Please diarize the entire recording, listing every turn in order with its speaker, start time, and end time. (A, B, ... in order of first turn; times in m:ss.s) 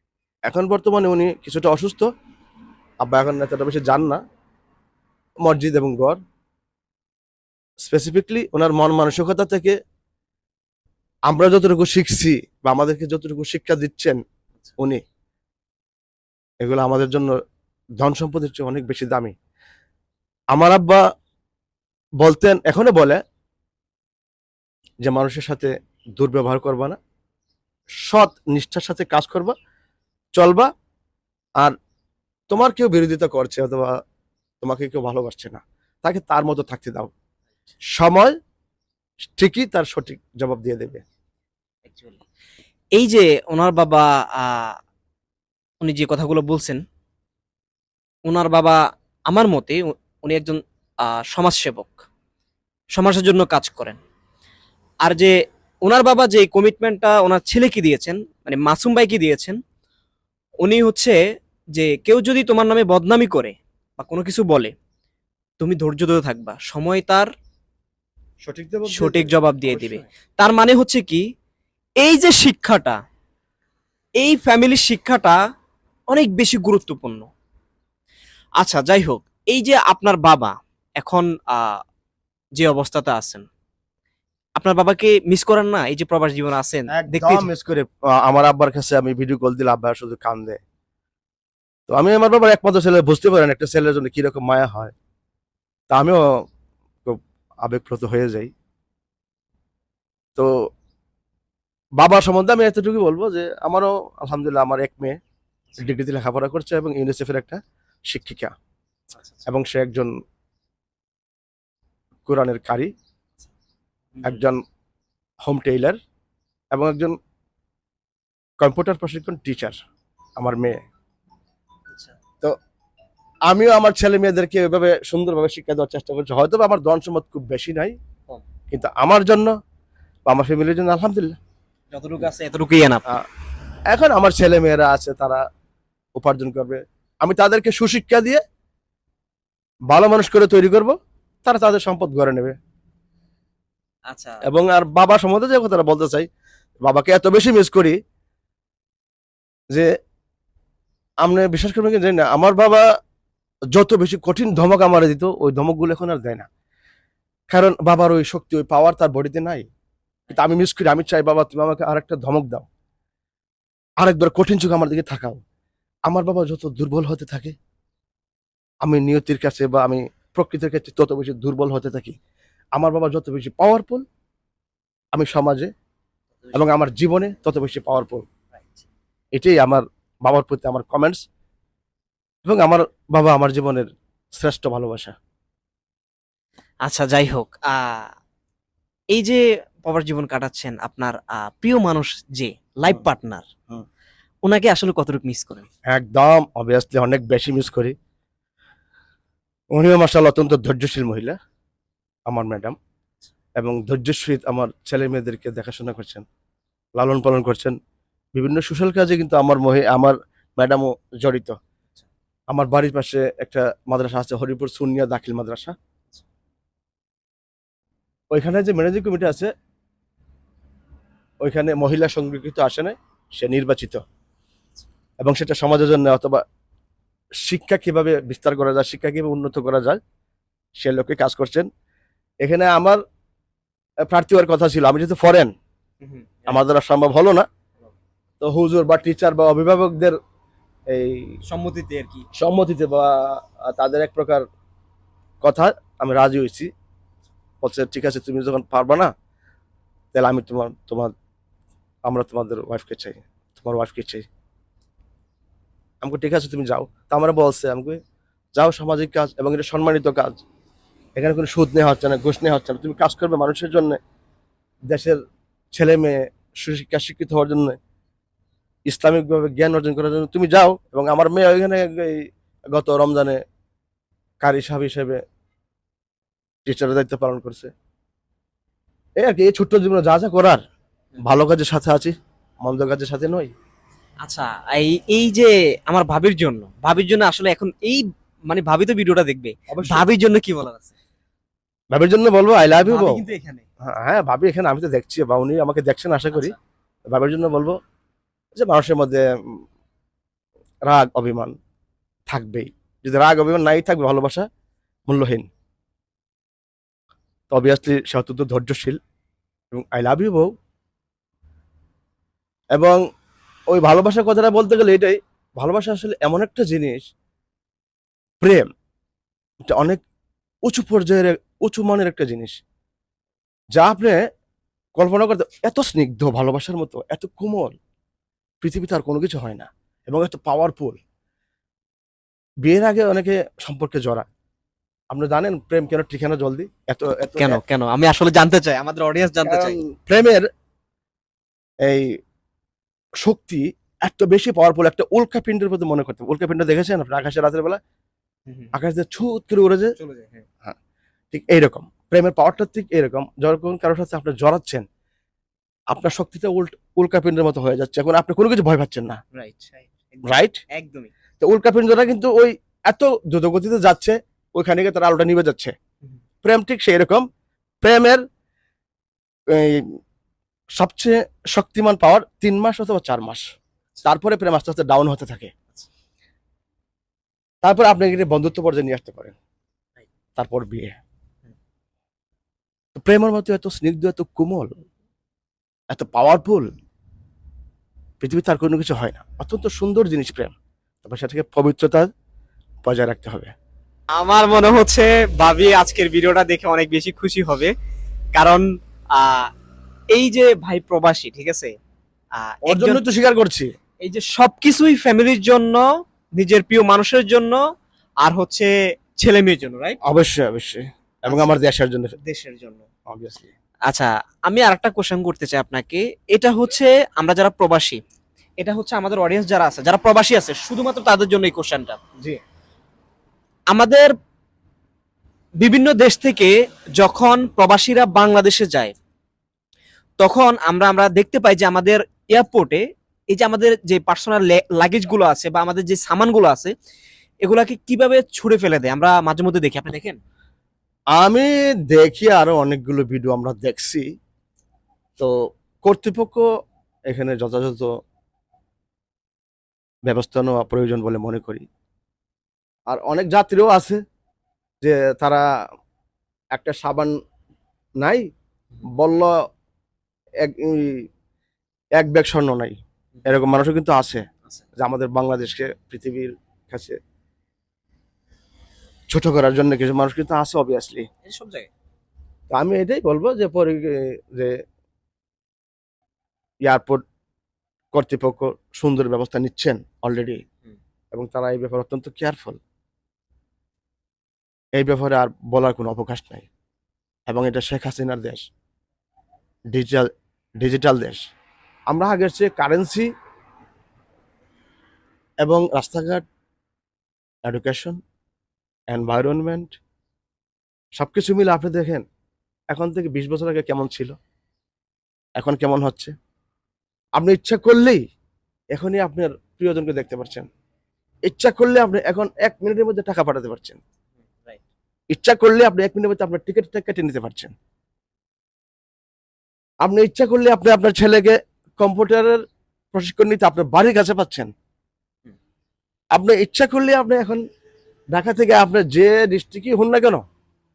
0:00.5-0:02.1 A
0:03.0-0:04.2 A
0:05.4-0:06.2 A
0:07.8-0:09.7 A
0:11.3-0:14.2 A
0:16.6-0:17.4 A
0:18.0-0:19.3 A
0:20.5-0:21.0 A
0:22.2-0:23.2 A
0:25.0-0:27.0 A
0:28.1-0:29.5 A
0:30.4-0:30.7 A
0:32.5-0:33.9 A
0:34.6-0:37.1 A
0:38.0-0:38.3 A
0:39.4-0:41.0 A
0:41.8-0:42.2 B
0:42.9-0:44.8 B
0:45.8-0:46.8 B
0:48.3-0:48.8 B
0:49.3-0:52.0 B
0:52.9-0:54.0 B
0:55.0-0:59.6 B
1:00.6-1:01.2 B
1:01.7-1:04.7 B
1:05.6-1:07.3 B
1:08.4-1:10.0 A
1:08.9-1:11.2 B
1:12.0-1:13.0 B
1:14.2-1:15.4 B
1:16.1-1:17.3 B
1:18.6-1:21.8 B
1:22.6-1:23.4 B
1:24.6-1:27.5 B
1:26.9-1:30.6 A
1:31.9-1:34.9 A
1:35.9-1:36.2 A
1:37.0-1:38.5 A
1:42.0-1:45.2 A
1:45.8-1:47.6 A
1:48.1-1:48.5 A
1:49.2-1:49.4 B
1:49.5-1:50.1 A
1:52.3-1:52.9 A
1:54.2-1:54.4 B
1:54.2-1:54.6 A
1:55.4-1:56.0 A
1:56.7-1:57.2 A
1:58.6-1:59.8 A
2:00.4-2:00.8 A
2:01.9-2:02.2 B
2:03.5-2:08.0 A
2:08.7-2:09.5 A
2:10.3-2:11.4 A
2:11.9-2:13.0 B
2:13.9-2:15.4 A
2:16.2-2:18.4 A
2:19.9-2:22.6 A
2:24.1-2:24.4 B
2:24.5-2:26.3 A
2:26.8-2:28.0 A
2:31.2-2:32.8 A
2:33.7-2:36.5 A
2:37.5-2:39.6 A
2:40.3-2:42.7 A
2:44.0-2:45.4 A
2:46.1-2:47.6 A
2:48.8-2:52.2 A
2:52.8-2:54.0 A
2:55.1-2:55.7 A
2:56.4-2:56.7 B
2:56.5-2:58.2 A
2:58.5-2:58.8 B
2:59.3-3:01.2 A
3:02.4-3:05.2 A
3:06.8-3:08.1 B
3:09.1-3:13.4 B
3:14.4-3:15.7 B
3:15.9-3:17.9 A
3:19.7-3:21.4 A
3:22.3-3:22.8 A
3:23.6-3:26.2 A
3:27.0-3:27.7 A
3:28.3-3:31.6 A
3:32.5-3:35.7 A
3:38.3-3:39.5 A
3:41.4-3:44.0 A
3:45.2-3:46.4 A
3:47.4-3:50.0 A
3:50.8-3:51.7 A
3:52.4-3:53.0 A
3:54.1-3:55.5 A
3:56.0-3:56.6 B
3:56.5-3:57.4 A
3:58.4-4:00.2 A
4:00.9-4:01.4 A
4:01.4-4:02.2 B
4:02.3-4:04.4 A
4:05.4-4:06.7 A
4:07.6-4:09.1 A
4:10.1-4:11.1 A
4:12.1-4:14.3 A
4:16.0-4:18.0 A
4:18.6-4:20.4 A
4:21.2-4:24.0 A
4:24.9-4:25.2 A
4:25.7-4:27.8 A
4:28.9-4:32.2 A
4:32.7-4:33.4 A
4:34.4-4:35.2 A
4:36.6-4:37.7 A
4:39.2-4:40.6 A
4:41.2-4:43.5 A
4:44.2-4:51.0 B
4:49.7-4:50.1 A
4:51.9-4:53.2 A
4:52.7-4:53.7 B
4:53.8-4:56.6 A
4:57.1-4:57.8 A
4:58.6-4:59.6 A
5:00.9-5:01.5 A
5:02.3-5:04.4 A
5:05.1-5:05.5 A
5:07.5-5:09.0 A
5:09.7-5:10.5 A
5:12.7-5:13.0 A
5:13.7-5:17.0 A
5:18.4-5:18.7 A
5:19.7-5:20.0 A
5:20.6-5:22.6 A
5:23.7-5:24.2 A
5:25.0-5:27.7 A
5:28.6-5:31.0 A
5:32.6-5:34.3 A
5:35.1-5:37.6 A
5:37.4-5:39.8 B
5:39.4-5:40.5 A
5:41.8-5:42.1 A
5:43.2-5:47.8 A
5:48.7-5:49.9 A
5:50.0-5:50.4 B
5:51.3-5:54.8 A
5:55.9-5:59.2 A
5:59.3-6:01.1 B
6:00.2-6:00.6 A
6:01.4-6:05.7 A
6:06.4-6:07.2 A
6:07.8-6:08.2 A
6:09.5-6:10.0 A
6:10.8-6:13.4 A
6:14.0-6:15.5 A
6:17.6-6:19.3 A
6:20.4-6:21.0 A
6:22.9-6:24.7 A
6:25.9-6:26.7 A
6:28.2-6:30.5 A
6:31.0-6:32.1 A
6:32.8-6:33.5 A
6:34.1-6:37.7 B
6:38.3-6:39.5 B
6:40.1-6:41.7 B
6:42.4-6:43.0 B
6:42.7-6:43.7 A
6:44.0-6:45.8 B
6:46.4-6:47.6 B
6:48.2-6:50.0 B
6:50.0-6:52.2 A
6:51.3-6:51.6 B
6:52.2-6:52.9 B
6:53.1-6:53.5 A
6:53.9-6:58.0 B
6:58.6-7:02.0 B
7:03.7-7:04.1 B
7:05.6-7:08.9 B
7:10.2-7:16.7 B
7:17.4-7:20.2 B
7:21.2-7:24.0 A
7:25.8-7:26.4 A
7:27.1-7:27.9 A
7:30.1-7:31.6 A
7:32.9-7:34.0 A
7:34.8-7:35.4 A
7:36.5-7:37.1 A
7:38.8-7:39.3 A
7:40.4-7:41.1 A
7:42.0-7:44.2 A
7:44.8-7:47.0 A
7:49.1-7:51.1 A
7:51.2-7:51.7 B
7:52.5-7:54.5 A
7:56.6-7:57.0 A
7:57.9-8:00.4 A
8:01.1-8:02.6 A
8:04.8-8:06.5 A
8:07.3-8:08.4 A
8:09.7-8:10.1 A
8:10.6-8:11.2 A
8:11.9-8:13.1 A
8:15.4-8:16.2 A
8:17.4-8:18.0 A
8:18.9-8:19.8 A
8:21.0-8:22.0 A
8:22.7-8:24.2 A
8:25.4-8:26.1 A
8:27.2-8:28.0 A
8:28.7-8:30.5 A
8:31.3-8:33.8 A
8:35.1-8:37.5 A
8:39.8-8:42.4 A
8:42.9-8:44.5 A
8:46.1-8:47.4 A
8:48.1-8:50.2 A